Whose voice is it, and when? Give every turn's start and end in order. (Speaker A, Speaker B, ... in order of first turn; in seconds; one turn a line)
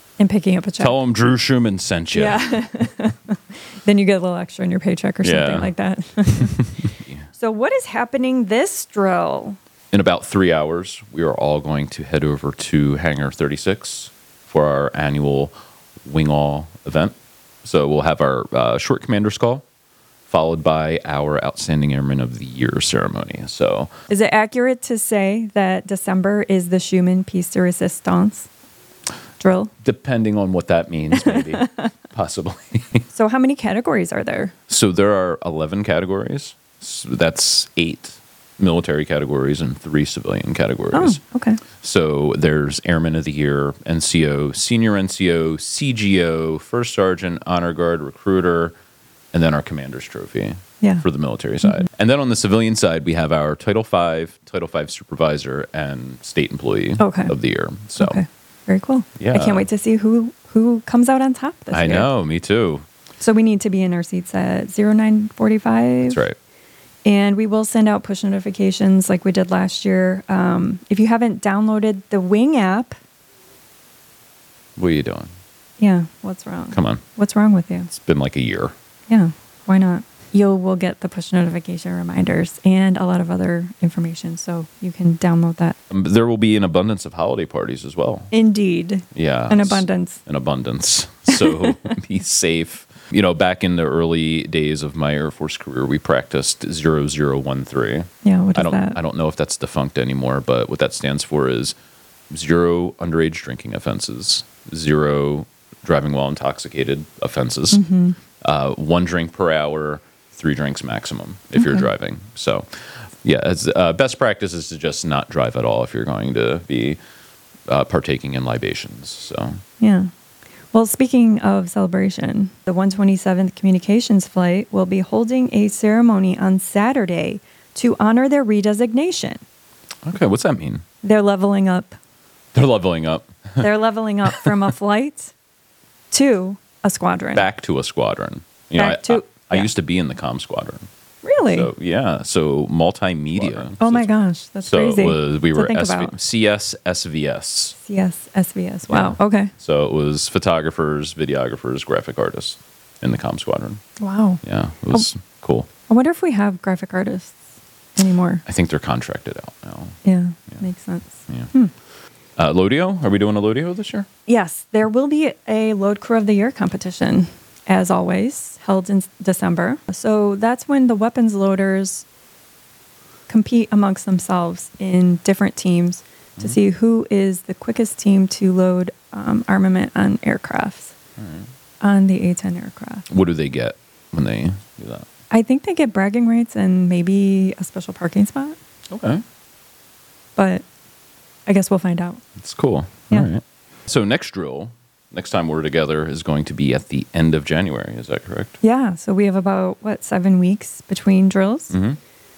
Speaker A: 0.2-1.0
Speaker B: 0.8-2.6
Speaker A: 2.1-6.6
Speaker B: 5.2-5.7
Speaker A: 7.3-9.6
Speaker B: 9.9-15.5
Speaker B: 16.1-19.6
Speaker B: 20.3-23.9
Speaker A: 24.1-28.5
Speaker A: 29.4-29.7
Speaker B: 29.8-33.1
Speaker A: 31.1-31.9
Speaker A: 33.1-34.5
Speaker B: 34.7-41.2
Speaker A: 40.9-41.6
Speaker B: 41.8-48.8
Speaker B: 49.3-58.2
Speaker A: 57.0-57.3
Speaker A: 58.0-62.1
Speaker B: 59.2-59.7
Speaker B: 61.7-62.8
Speaker A: 63.2-66.2
Speaker B: 66.0-66.4
Speaker A: 67.0-73.0
Speaker B: 74.8-75.3
Speaker A: 75.8-77.9
Speaker B: 76.7-77.0
Speaker B: 77.9-78.7
Speaker A: 79.1-85.8
Speaker B: 85.9-88.3
Speaker A: 88.3-90.2
Speaker B: 89.1-101.8
Speaker A: 98.2-99.0
Speaker B: 102.3-107.8
Speaker A: 107.7-108.2
Speaker B: 108.4-112.7
Speaker A: 111.6-111.9
Speaker B: 113.2-117.0
Speaker B: 117.7-119.6
Speaker A: 119.8-120.1
Speaker A: 120.7-129.4
Speaker B: 130.1-130.8
Speaker A: 131.0-132.0
Speaker B: 132.5-133.7
Speaker A: 133.6-135.3
Speaker A: 136.1-137.4
Speaker B: 137.3-140.9
Speaker A: 138.8-139.7
Speaker A: 141.2-141.7
Speaker B: 141.5-144.1
Speaker A: 143.8-146.1
Speaker B: 144.7-147.8
Speaker A: 147.8-149.5
Speaker B: 148.9-153.8
Speaker A: 154.0-155.1
Speaker B: 154.4-155.7
Speaker A: 155.9-157.4
Speaker A: 158.0-158.4
Speaker B: 158.5-160.0
Speaker A: 160.1-161.7
Speaker B: 162.4-164.1
Speaker A: 164.3-172.1
Speaker A: 173.3-180.9
Speaker B: 181.2-181.5
Speaker A: 181.8-183.1
Speaker B: 183.1-185.1
Speaker A: 185.3-188.6
Speaker B: 188.9-189.2
Speaker A: 190.4-190.6
Speaker A: 191.5-192.2
Speaker B: 192.4-198.6
Speaker A: 198.6-201.8
Speaker B: 201.7-202.0